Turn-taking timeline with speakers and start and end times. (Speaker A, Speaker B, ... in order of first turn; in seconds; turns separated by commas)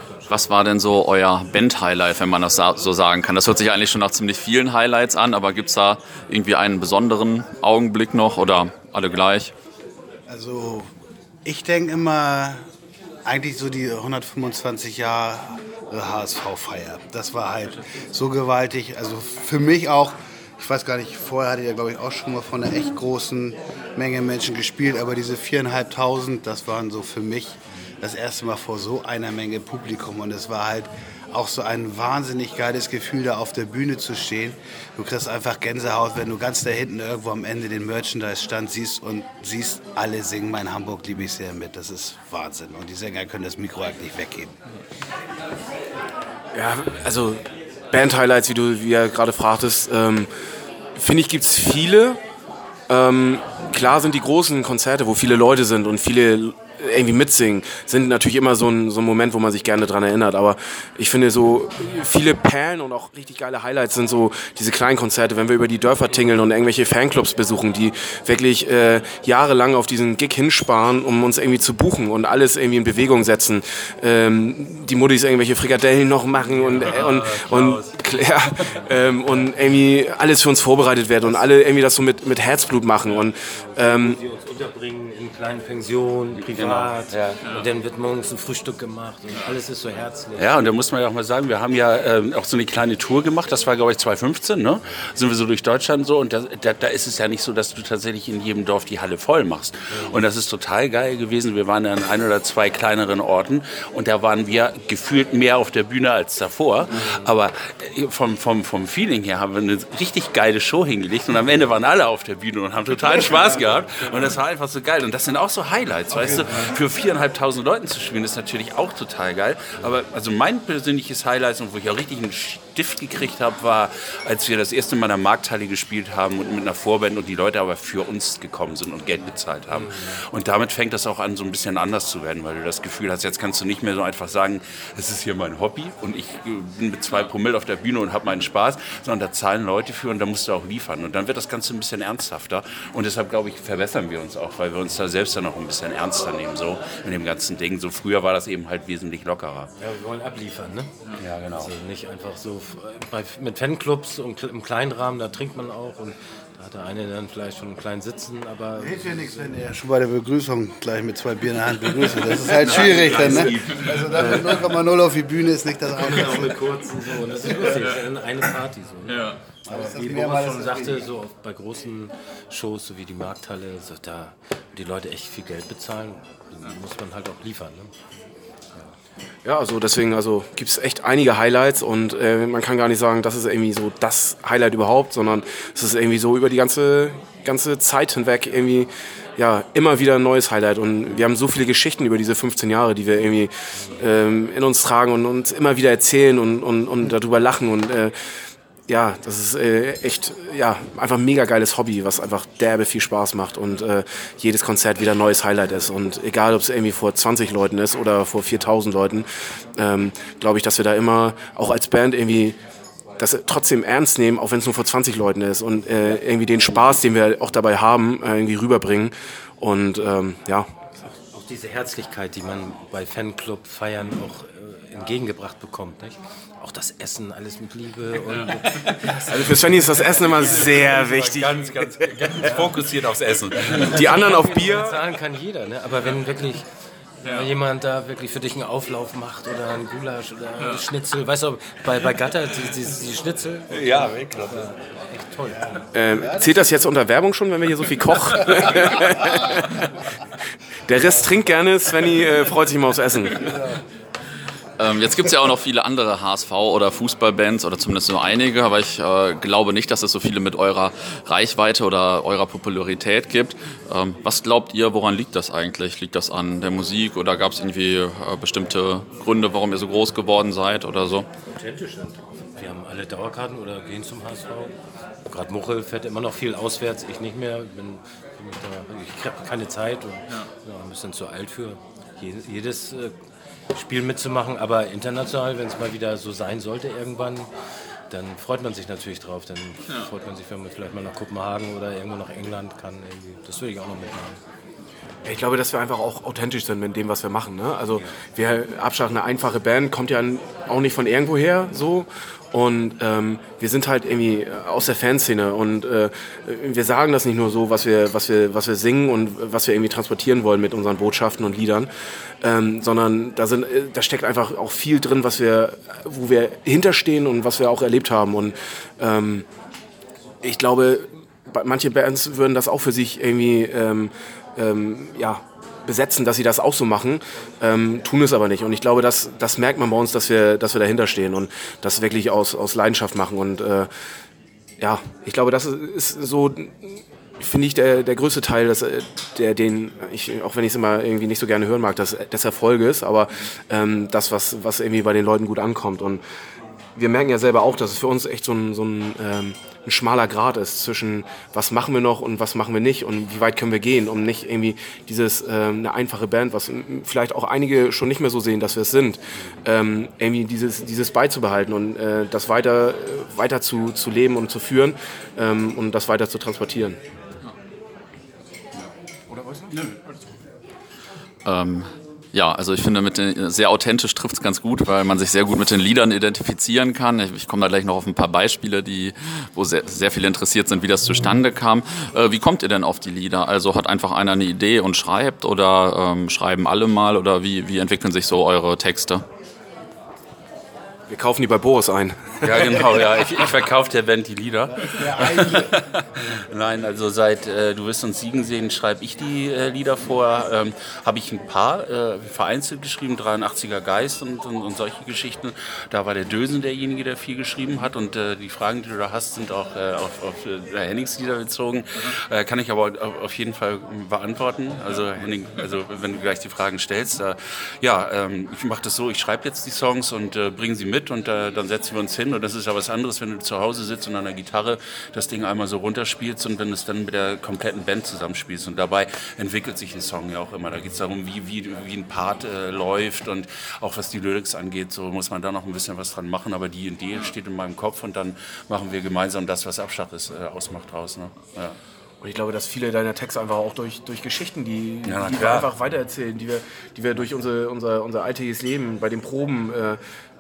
Speaker A: 0.3-9.5, Speaker B: 10.3-10.9, Speaker B: 11.4-12.6, Speaker B: 13.2-44.5, Speaker C: 46.5-50.3, Speaker C: 51.0-52.2, Speaker C: 52.9-84.2, Speaker D: 76.7-78.3, Speaker E: 76.8-77.0, Speaker E: 83.5-90.5, Speaker D: 86.4-87.4, Speaker D: 90.4-149.7, Speaker E: 99.9-100.2, Speaker E: 106.9-107.3, Speaker E: 129.8-130.1, Speaker E: 149.8-150.9, Speaker D: 151.2-151.7, Speaker E: 151.6-159.6, Speaker B: 158.8-166.6, Speaker D: 162.3-164.6, Speaker E: 162.4-163.5, Speaker E: 166.0-177.9, Speaker B: 167.4-167.9, Speaker A: 169.1-169.4, Speaker B: 169.7-171.1, Speaker C: 179.4-198.2, Speaker C: 198.9-212.6, Speaker C: 213.2-220.7, Speaker E: 221.3-230.4, Speaker C: 229.3-232.3, Speaker D: 230.4-234.1, Speaker E: 232.3-232.7, Speaker E: 233.6-236.7, Speaker C: 233.8-235.0, Speaker E: 237.2-245.8, Speaker D: 243.7-244.7, Speaker B: 245.6-246.7, Speaker C: 245.9-249.9, Speaker B: 248.6-249.0, Speaker C: 250.9-253.6, Speaker B: 253.4-253.7, Speaker A: 254.8-271.3, Speaker E: 271.6-274.7, Speaker E: 275.3-283.1, Speaker E: 283.7-287.5, Speaker E: 288.1-294.4, Speaker C: 295.2-311.9, Speaker C: 312.4-319.5, Speaker C: 320.4-333.9, Speaker C: 334.8-346.2, Speaker C: 347.0-367.0, Speaker C: 369.3-369.8, Speaker A: 371.4-389.2, Speaker C: 391.1-393.2, Speaker D: 392.4-441.8, Speaker B: 394.8-395.8, Speaker C: 442.2-450.0, Speaker D: 445.1-445.7